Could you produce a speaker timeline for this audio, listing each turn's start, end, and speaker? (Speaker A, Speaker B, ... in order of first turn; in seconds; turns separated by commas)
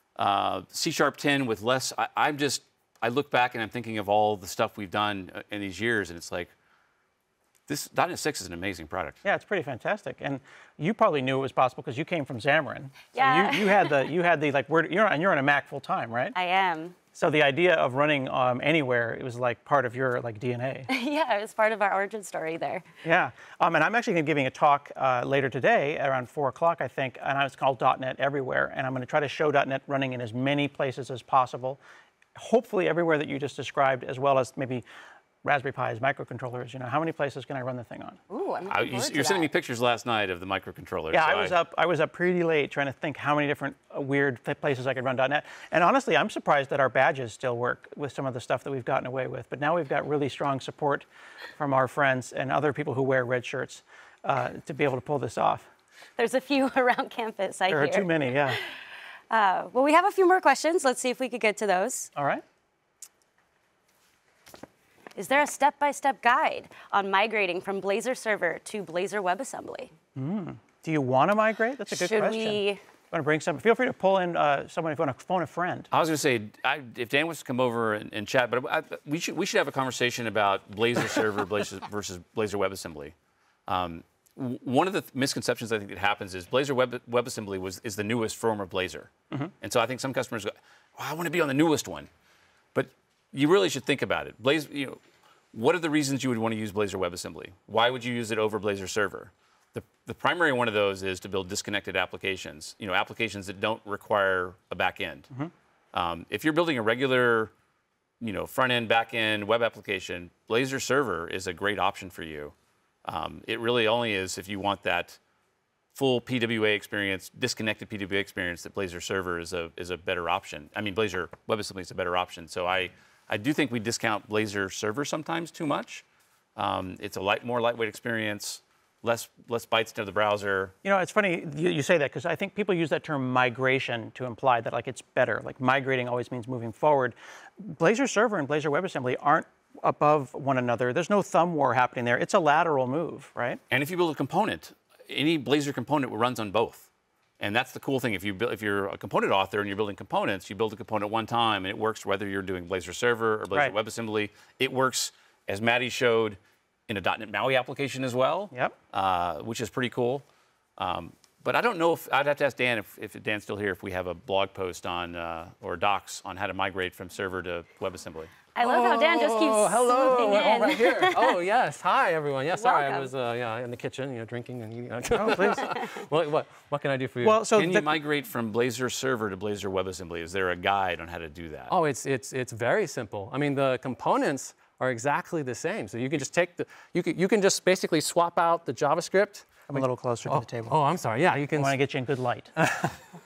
Speaker A: 0.2-6.5, Speaker A: 7.7-9.2, Speaker B: 9.2-16.3, Speaker C: 13.1-13.9, Speaker C: 16.3-16.9, Speaker B: 17.1-20.9, Speaker C: 20.9-22.8, Speaker B: 23.0-31.8, Speaker B: 32.3-34.8, Speaker B: 35.4-38.2, Speaker C: 38.3-39.5, Speaker A: 38.7-41.5, Speaker B: 41.1-51.0, Speaker B: 51.6-55.7, Speaker C: 56.2-58.6, Speaker B: 57.7-58.6, Speaker C: 59.3-62.1, Speaker B: 62.1-62.4, Speaker C: 65.2-69.9, Speaker B: 70.2-75.9, Speaker C: 71.9-72.8, Speaker A: 75.9-83.1, Speaker A: 83.7-92.1, Speaker A: 92.7-95.0, Speaker A: 95.5-105.3, Speaker A: 105.9-107.5, Speaker A: 108.2-112.5, Speaker A: 113.0-115.2, Speaker A: 115.9-126.0, Speaker A: 126.5-130.7, Speaker B: 130.8-143.6, Speaker A: 143.7-146.9, Speaker A: 147.4-160.2, Speaker A: 160.8-168.4, Speaker C: 168.5-171.4, Speaker D: 168.6-177.4, Speaker C: 172.5-173.1, Speaker B: 175.1-175.6, Speaker B: 177.2-177.9, Speaker A: 177.6-181.7, Speaker D: 181.7-191.8, Speaker B: 189.7-190.7, Speaker B: 191.6-192.5, Speaker D: 192.6-192.9